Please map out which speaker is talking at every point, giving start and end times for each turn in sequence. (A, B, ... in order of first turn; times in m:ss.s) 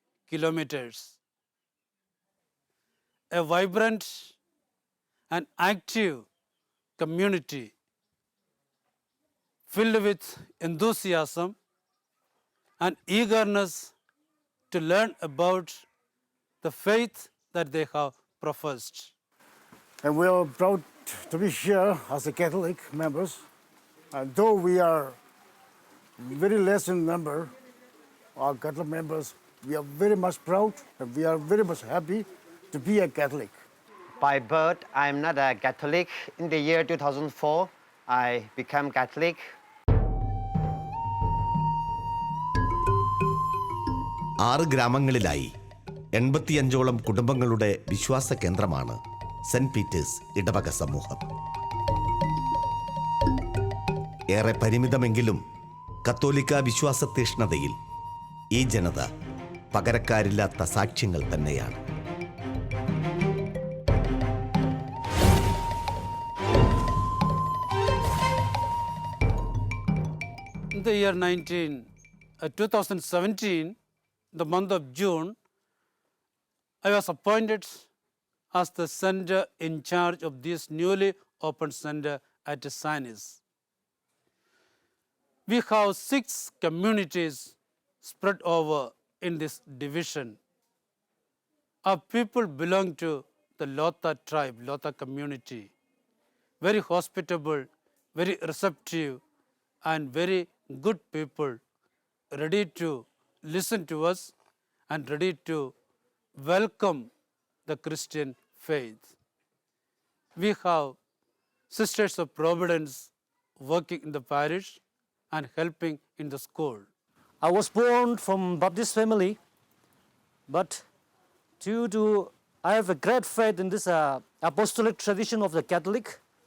0:00.3-0:01.2 A
0:03.3-0:04.4 A
0:05.3-0:06.2 A
0:07.0-0:07.7 A
0:09.7-0:11.5 A
0:12.8-0:13.9 A
0:14.7-0:15.8 A
0:16.6-0:19.1 A
0:20.0-0:23.4 B
0:24.1-0:25.2 B
0:26.2-0:27.5 B
0:28.4-0:33.6 B
0:34.2-0:39.4 C
0:44.4-0:45.5 D
0:46.1-0:51.2 D
0:54.3-0:55.4 D
0:56.0-0:57.7 D
0:58.5-0:59.1 D
0:59.7-1:01.8 D
1:10.7-1:11.8 A
1:12.4-1:13.8 A
1:14.3-1:15.3 A
1:16.8-1:17.9 A
1:18.5-1:23.4 A
1:25.5-1:30.4 A
1:31.8-1:35.7 A
1:36.6-1:39.2 A
1:39.8-1:41.6 A
1:42.3-1:44.3 A
1:44.9-1:45.7 A
1:46.4-1:47.1 A
1:47.6-1:49.1 A
1:50.4-1:51.0 A
1:51.7-1:54.8 A
1:55.3-1:56.9 A
1:57.4-1:59.4 E
2:00.5-2:00.8 E
2:01.6-2:06.2 E